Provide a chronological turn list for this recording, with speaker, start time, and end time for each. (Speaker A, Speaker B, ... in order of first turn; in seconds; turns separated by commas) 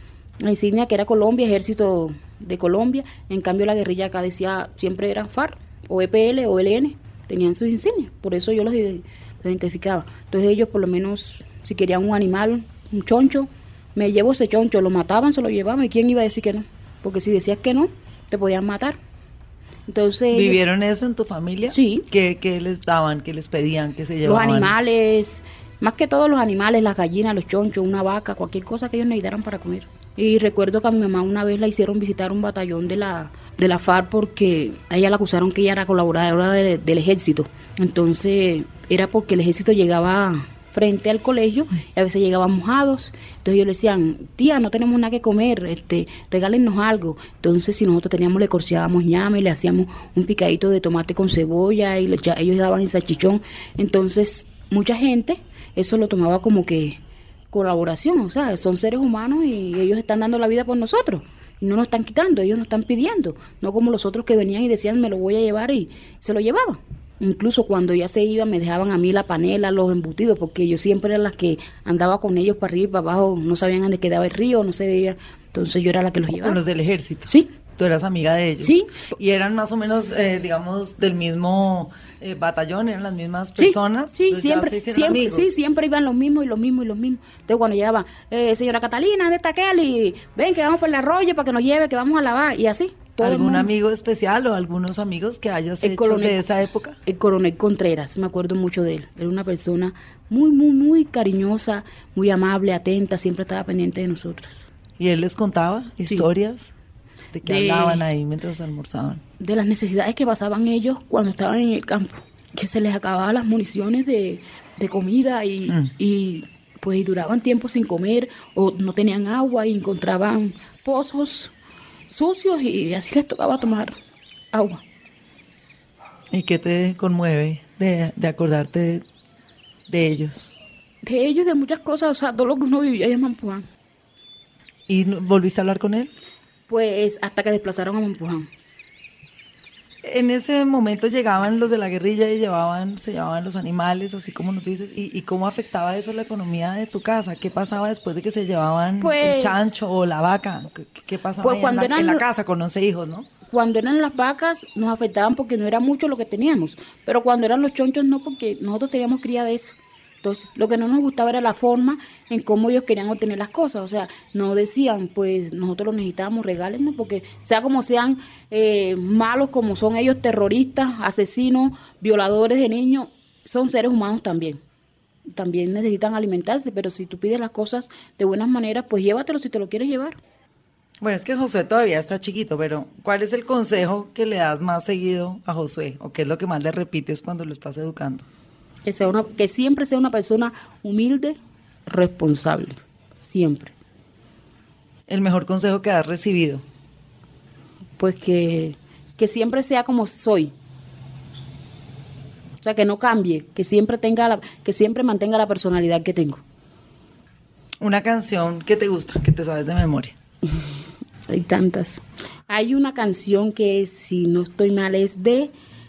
Speaker A: 0.4-19.0, Speaker A: 19.9-20.6, Speaker B: 20.3-24.7, Speaker A: 21.7-22.1, Speaker A: 24.2-57.0, Speaker A: 57.5-76.6, Speaker B: 76.3-85.5, Speaker A: 78.6-79.1, Speaker A: 83.6-93.7, Speaker B: 93.2-97.0, Speaker A: 95.8-96.4, Speaker A: 97.1-104.6, Speaker B: 105.0-106.7, Speaker B: 107.3-109.2, Speaker A: 107.5-108.0, Speaker A: 109.4-121.5, Speaker A: 122.1-124.0, Speaker A: 124.5-124.8, Speaker B: 126.3-129.0, Speaker B: 129.9-130.6, Speaker A: 131.0-133.7, Speaker B: 134.9-136.1, Speaker A: 136.7-138.5, Speaker B: 140.0-153.3, Speaker A: 149.0-149.7, Speaker A: 151.4-152.2, Speaker A: 153.5-174.6, Speaker A: 175.3-180.2, Speaker B: 181.0-188.2, Speaker A: 188.9-193.7, Speaker B: 195.1-196.6, Speaker A: 198.0-200.5, Speaker A: 202.6-206.4, Speaker B: 207.8-210.2, Speaker A: 211.3-215.5